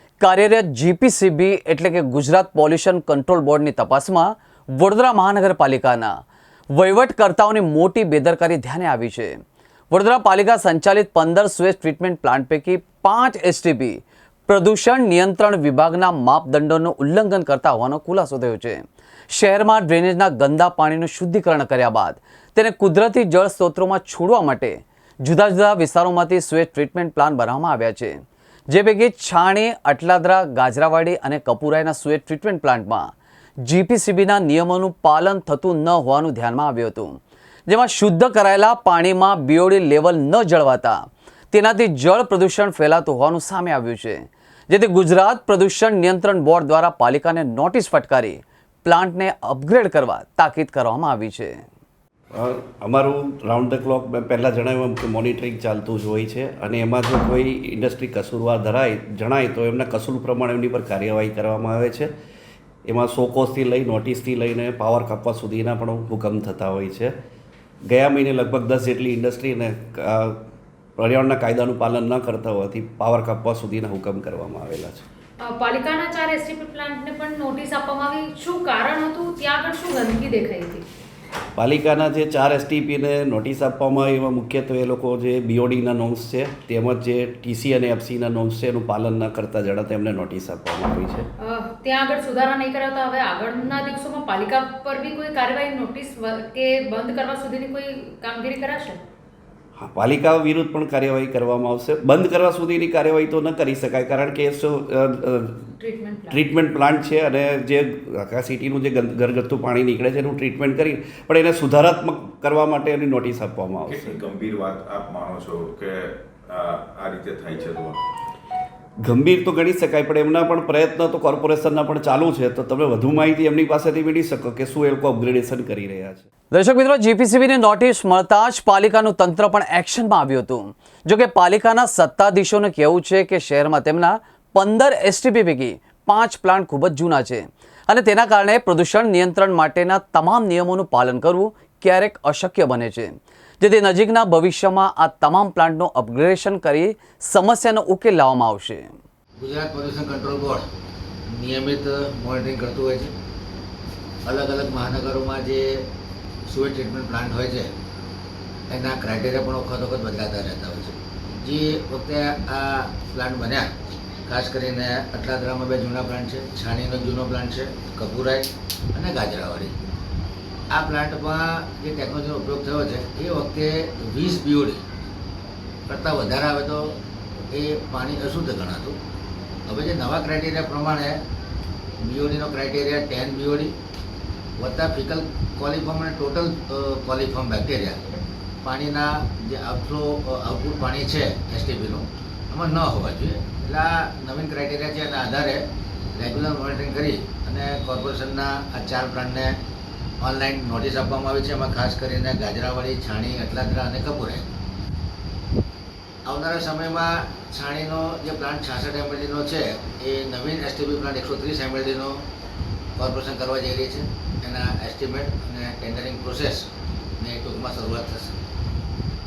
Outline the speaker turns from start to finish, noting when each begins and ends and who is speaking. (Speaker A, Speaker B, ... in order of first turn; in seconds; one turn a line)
Speaker A: 0.2-6.1
Speaker A: 6.7-9.4
Speaker A: 9.9-33.1
Speaker A: 33.6-37.2
Speaker A: 37.7-41.0
Speaker A: 41.5-51.6
Speaker B: 52.3-62.1
Speaker B: 62.9-67.1
Speaker B: 67.9-70.4
Speaker B: 71.0-75.0
Speaker C: 75.4-80.8
Speaker B: 81.6-91.3
Speaker C: 91.4-99.0
Speaker B: 99.8-105.7
Speaker C: 105.8-106.4
Speaker B: 106.3-114.2
Speaker D: 113.9-118.0
Speaker B: 119.0-126.3
Speaker A: 126.5-148.9
Speaker E: 149.4-150.6
Speaker E: 151.3-153.1
Speaker E: 154.2-155.8
Speaker E: 156.5-157.7
Speaker E: 158.7-163.7
Speaker E: 164.3-169.8
Speaker E: 170.7-174.8
Speaker E: 175.9-177.0
Speaker E: 177.5-179.0
Speaker E: 179.7-181.2
Speaker E: 182.0-183.7
Speaker E: 184.6-195.6
Speaker E: 196.1-199.6
Speaker E: 200.2-204.4
Speaker E: 206.3-212.2
Speaker E: 213.0-216.7
Speaker E: 217.2-218.4